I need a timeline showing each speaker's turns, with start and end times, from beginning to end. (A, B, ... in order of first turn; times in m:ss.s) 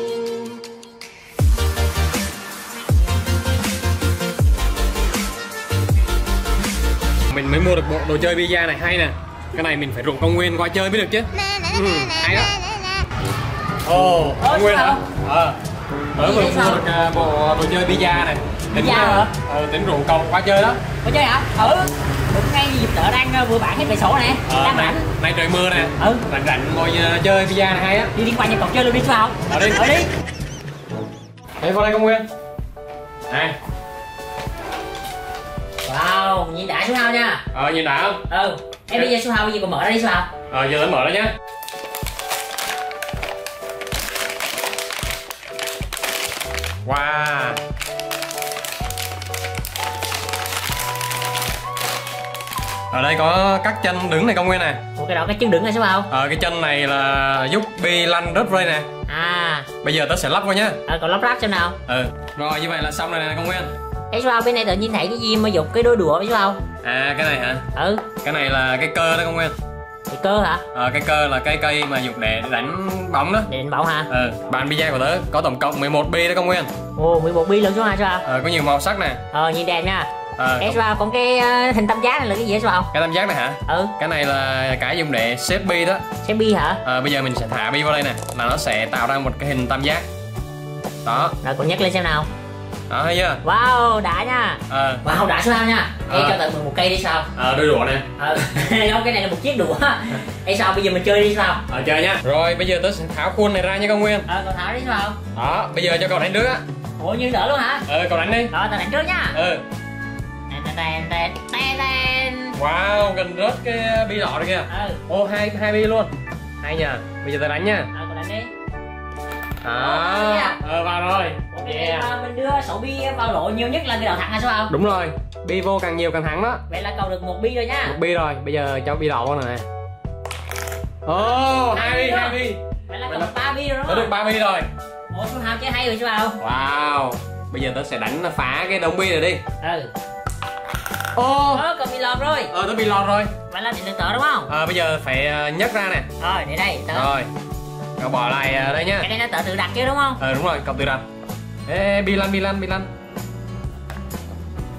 0:07.3-0:12.5 A
0:13.8-0:15.6 A
0:14.4-0:15.0 B
0:16.2-0:20.8 A
0:16.2-0:16.8 B
0:18.7-0:19.3 B
0:21.0-0:25.0 B
0:24.5-0:28.1 A
0:26.0-0:26.2 B
0:28.1-0:30.1 B
0:29.5-0:29.8 A
0:31.6-0:32.3 A
0:33.3-0:33.6 A
0:35.8-0:37.4 B
0:37.5-0:38.2 A
0:38.3-0:40.3 B
0:40.5-0:41.3 A
0:46.8-0:47.6 A
0:52.9-0:54.8 A
0:55.0-0:56.1 B
0:56.1-0:58.9 A
0:59.1-0:59.7 B
0:59.8-1:00.8 A
1:00.9-1:01.8 B
1:01.9-1:03.7 A
1:04.1-1:06.6 B
1:06.8-1:07.6 A
1:07.7-1:08.1 B
1:08.2-1:09.5 A
1:10.1-1:10.6 B
1:10.7-1:13.5 A
1:13.5-1:14.1 B
1:14.1-1:16.7 A
1:17.0-1:18.2 B
1:18.2-1:19.2 A
1:19.3-1:20.1 B
1:20.4-1:20.8 A
1:20.6-1:22.9 B
1:22.9-1:26.0 A
1:23.7-1:23.9 B
1:26.2-1:26.8 B
1:26.8-1:30.0 A
1:31.0-1:31.3 A
1:31.4-1:32.3 B
1:32.9-1:33.4 A
1:33.4-1:37.3 B
1:34.7-1:35.0 A
1:36.1-1:36.4 A
1:37.3-1:38.0 A
1:38.2-1:41.6 B
1:41.7-1:44.2 A
1:44.3-1:45.2 B
1:45.3-1:46.6 A
1:47.0-1:47.8 B
1:47.9-1:48.5 A
1:48.5-1:49.4 B
1:49.3-1:49.6 A
1:50.5-1:52.6 B
1:52.6-1:57.9 A
1:54.7-1:55.0 B
1:57.9-1:58.5 B
1:59.6-2:02.1 A
1:59.7-2:00.6 B
2:01.5-2:04.7 B
2:04.7-2:06.6 A
2:06.7-2:08.0 B
2:07.8-2:09.6 A
2:11.0-2:13.3 A
2:11.7-2:14.1 B
2:13.8-2:14.7 A
2:15.1-2:16.4 B
2:16.4-2:19.4 A
2:19.6-2:19.9 B
2:21.1-2:21.6 A
2:21.5-2:22.5 B
2:22.5-2:23.3 A
2:23.5-2:24.5 B
2:24.5-2:26.0 A
2:26.2-2:27.1 B
2:26.9-2:27.3 A
2:28.0-2:29.1 A
2:29.0-2:30.2 B
2:30.2-2:31.0 A
2:31.6-2:32.9 A